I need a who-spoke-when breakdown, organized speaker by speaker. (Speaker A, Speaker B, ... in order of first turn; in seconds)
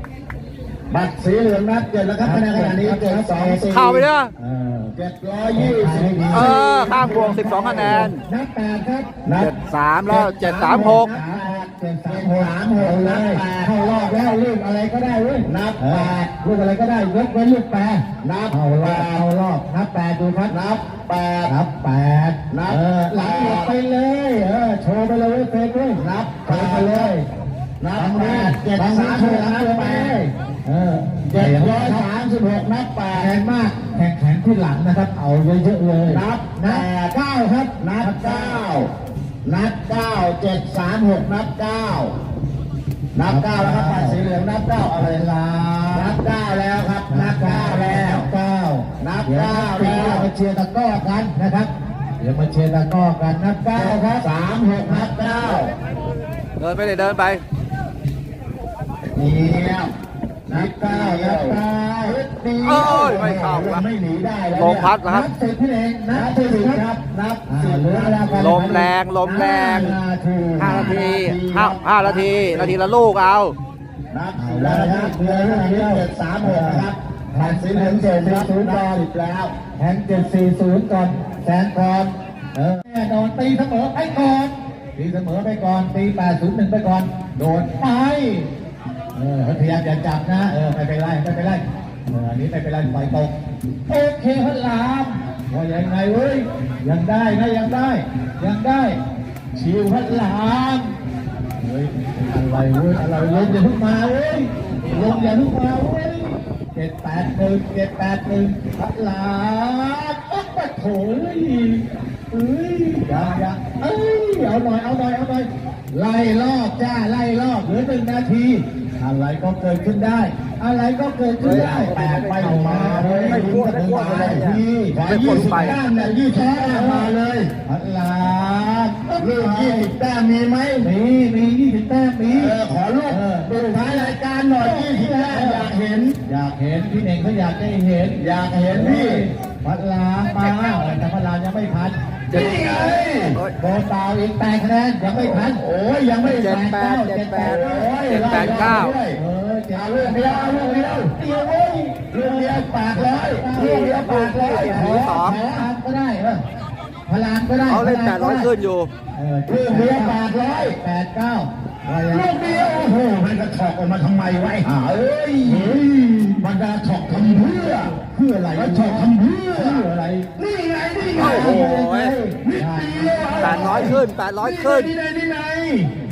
Speaker A: 0.9-4.1, 4.9-8.1, 9.2-9.5, 10.1-13.7, 15.4-16.3, 18.2-19.2, 20.5-21.5, 22.5-23.7, 25.9-27.1, 27.8-30.2, 31.3-33.3, 36.1-38.9, 39.4-42.1, 43.1-45.3, 45.9-48.3, 49.0-50.3, 53.7-55.7, 59.1-59.9, 60.5-64.9, 66.1-68.5, 70.5-72.8, 74.1-79.5, 121.4-127.5, 129.2-130.9, 132.2-136.2, 138.2-139.2, 142.3-143.4, 145.1-146.5, 147.4-149.2, 149.7-151.2, 152.0-155.7, 159.5-160.8, 162.1-165.9, 166.4-175.9
Speaker B: 2.2-3.6, 4.4-5.0, 5.5-9.1, 10.6-20.6, 21.4-27.2, 27.9-32.1, 33.1-36.9, 38.0-38.6, 43.2-44.2, 44.9-46.1, 47.1-54.3, 54.8-55.3, 60.5-62.2, 65.0-66.8, 67.5-71.0, 74.3-78.8, 79.8-88.5, 89.1-93.3, 93.9-99.0, 99.5-100.9, 101.6-127.1, 127.7-129.9, 130.8-132.6, 133.1-135.7, 136.2-145.6, 146.2-156.4, 157.1-158.5, 159.1-163.0, 165.4-166.4, 167.1-170.3, 171.1-174.0
Speaker C: 3.7-4.3, 6.3-8.2, 9.4-11.1, 56.6-57.4, 62.6-63.8, 64.5-65.3, 68.3-70.0, 70.6-73.5, 121.4-125.8, 142.3-142.7, 146.3-148.9, 153.6-155.4, 157.7-158.9, 171.2-172.2, 173.4-174.9